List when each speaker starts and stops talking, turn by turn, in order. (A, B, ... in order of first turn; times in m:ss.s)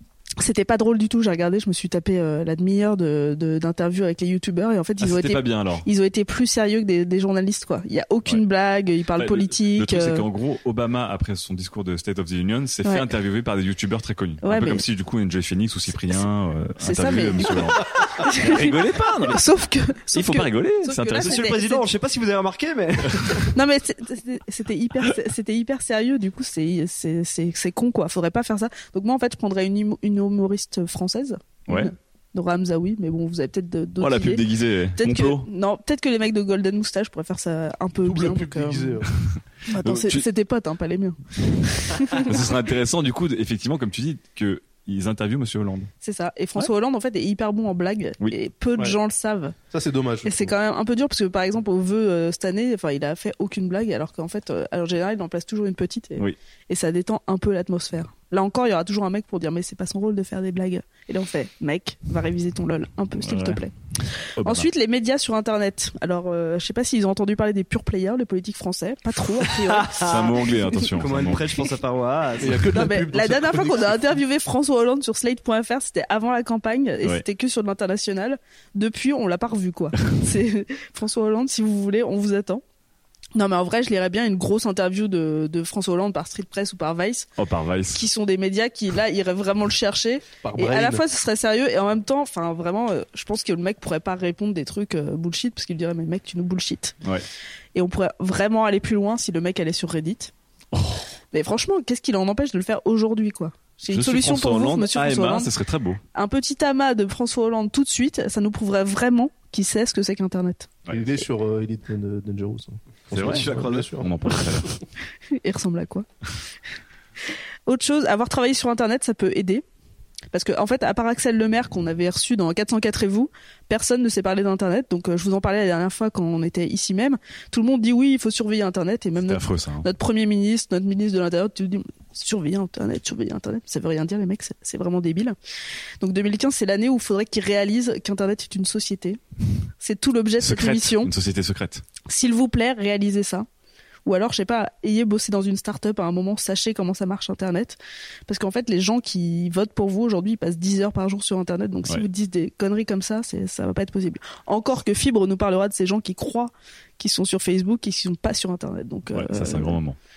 0:00.4-0:10.2 A
0:05.0-0:05.9 B
0:09.2-0:19.4 B
0:12.8-0:13.1 A
0:14.4-0:14.8 A
0:16.8-0:21.9 A
0:20.1-0:21.5 B
0:21.2-0:23.5 C
0:23.5-0:39.0 A
0:34.0-0:35.4 B
0:38.0-0:39.1 D
0:39.7-0:42.5 A
0:39.7-0:40.2 B
0:42.1-0:45.9 B
0:46.0-0:49.6 A
0:49.7-0:50.5 D
0:50.2-1:10.4 A
1:03.2-1:03.6 B
1:04.4-1:04.7 B
1:09.7-1:13.0 C
1:09.9-1:11.6 B
1:12.4-1:14.0 D
1:12.7-1:22.6 A
1:23.3-1:27.3 A
1:27.4-1:28.0 B
1:27.9-1:37.0 A
1:30.4-1:31.0 D
1:37.7-1:40.3 A
1:40.7-1:41.1 B
1:41.3-1:45.5 A
1:43.9-1:46.0 B
1:46.1-1:50.8 A
1:50.9-1:54.1 D
1:53.1-1:53.9 C
1:53.1-1:54.7 B
1:55.3-1:56.0 A
1:57.7-1:59.6 A
2:00.3-2:15.3 A
2:09.2-2:09.9 B
2:16.0-2:19.2 A
2:19.8-2:21.1 A
2:20.4-2:21.8 B
2:22.1-2:23.5 A
2:24.0-2:39.8 A
2:39.1-2:40.0 B